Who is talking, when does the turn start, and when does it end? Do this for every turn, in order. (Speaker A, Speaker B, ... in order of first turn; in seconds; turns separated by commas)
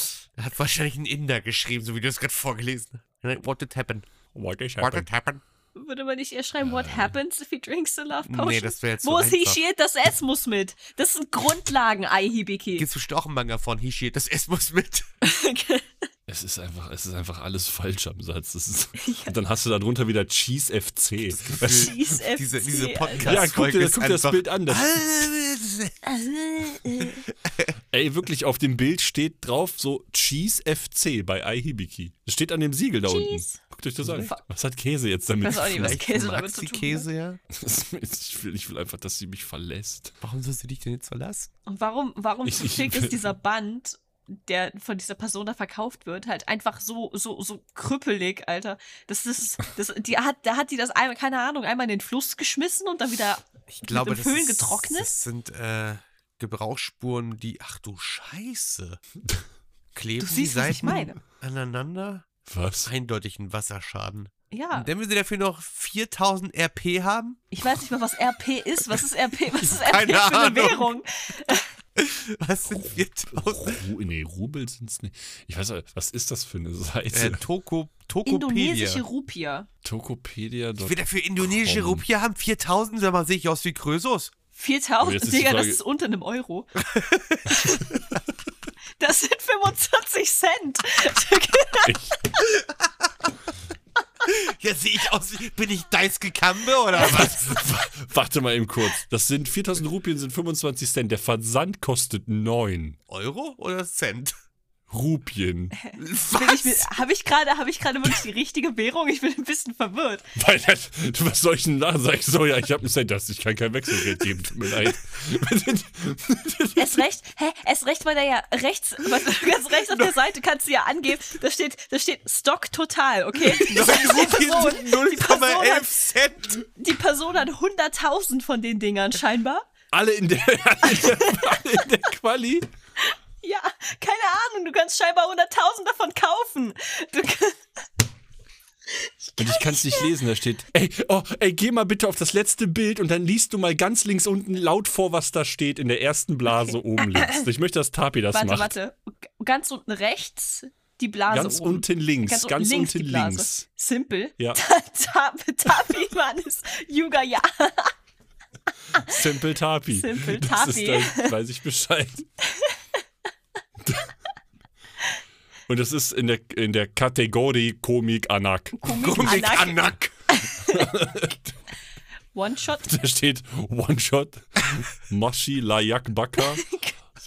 Speaker A: 0.4-4.1, Speaker B: 4.3-5.1, Speaker A: 4.8-5.4, Speaker C: 5.7-12.9, Speaker B: 6.6-7.2, Speaker A: 8.2-9.6, Speaker A: 12.8-15.1, Speaker C: 15.2-16.1, Speaker B: 16.3-22.0, Speaker C: 19.0-19.4, Speaker A: 21.3-25.9, Speaker C: 21.6-23.4, Speaker B: 23.2-25.0, Speaker C: 26.0-27.2, Speaker A: 27.0-27.7, Speaker B: 27.9-36.0, Speaker C: 33.0-33.6, Speaker A: 34.0-34.3, Speaker C: 35.4-37.1, Speaker A: 35.6-37.4, Speaker B: 37.5-40.1, Speaker A: 40.2-41.5, Speaker C: 41.7-55.1, Speaker B: 42.4-43.3, Speaker A: 53.7-59.0, Speaker A: 59.9-62.3, Speaker C: 60.2-61.2, Speaker B: 62.5-62.9, Speaker A: 62.8-67.4, Speaker C: 64.5-64.9, Speaker C: 67.5-71.7, Speaker A: 69.5-70.9, Speaker A: 72.0-73.8, Speaker B: 72.7-77.4, Speaker A: 77.1-79.0, Speaker C: 78.2-79.7, Speaker B: 79.8-82.0, Speaker A: 80.8-84.3, Speaker C: 84.5-86.7, Speaker B: 85.0-85.8, Speaker A: 86.8-88.0, Speaker C: 87.5-87.8, Speaker C: 89.0-91.9, Speaker B: 91.8-92.3, Speaker A: 92.5-93.1, Speaker A: 94.2-97.6, Speaker B: 96.9-103.0, Speaker A: 103.1-104.3, Speaker B: 104.9-105.8, Speaker C: 105.8-110.3, Speaker A: 106.0-106.9, Speaker B: 110.3-117.0, Speaker C: 116.8-125.9, Speaker A: 119.8-120.2, Speaker A: 123.5-126.6, Speaker C: 126.5-129.7, Speaker B: 129.9-132.7, Speaker C: 130.8-131.8, Speaker C: 133.0-137.6, Speaker C: 139.0-140.1, Speaker B: 139.4-148.7, Speaker C: 147.2-147.4, Speaker C: 148.3-157.9, Speaker B: 151.3-153.7, Speaker B: 158.9-162.3, Speaker C: 159.9-161.3, Speaker C: 162.4-162.8, Speaker B: 165.7-169.3, Speaker C: 168.8-171.1, Speaker A: 168.9-170.1, Speaker B: 170.6-171.5, Speaker C: 172.3-172.9, Speaker B: 172.8-176.7, Speaker C: 176.5-176.9